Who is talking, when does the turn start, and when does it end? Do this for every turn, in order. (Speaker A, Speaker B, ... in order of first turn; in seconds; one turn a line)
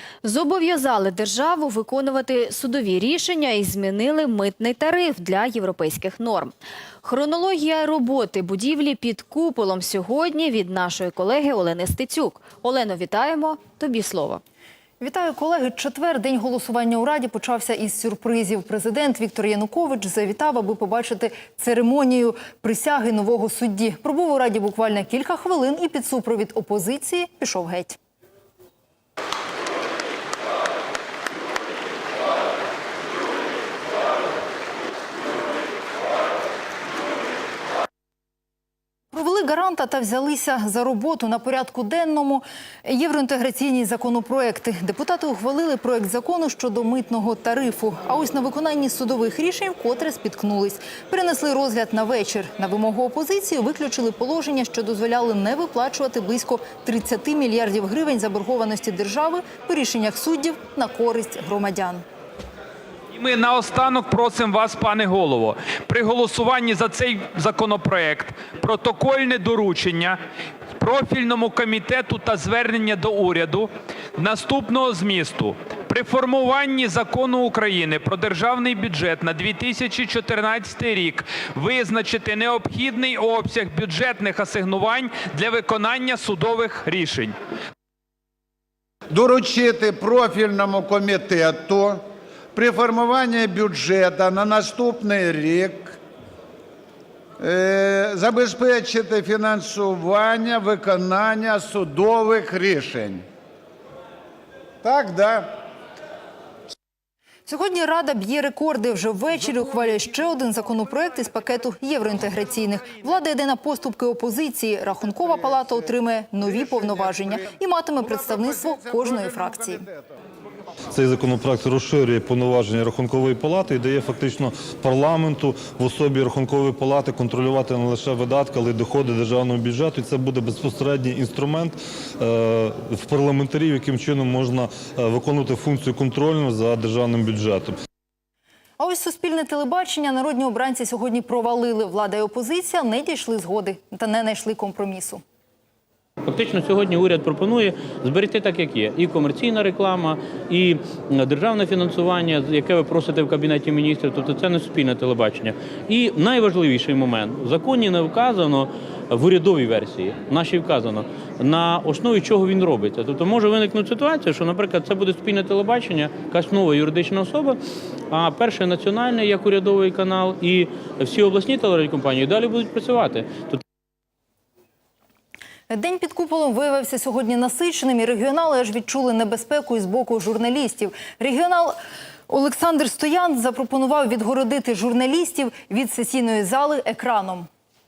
Speaker A: 0.2-14.4
Speaker B: 15.0-28.0
Speaker B: 39.1-62.0
Speaker C: 63.1-70.2
Speaker C: 70.8-87.3
Speaker D: 89.1-92.0
Speaker D: 92.5-96.0
Speaker D: 97.4-103.2
Speaker D: 104.8-105.5
Speaker B: 107.5-119.9
Speaker E: 120.9-137.7
Speaker B: 138.8-145.2
Speaker F: 146.3-167.6
Speaker F: 168.1-173.6
Speaker B: 175.7-181.8
Speaker B: 182.3-187.5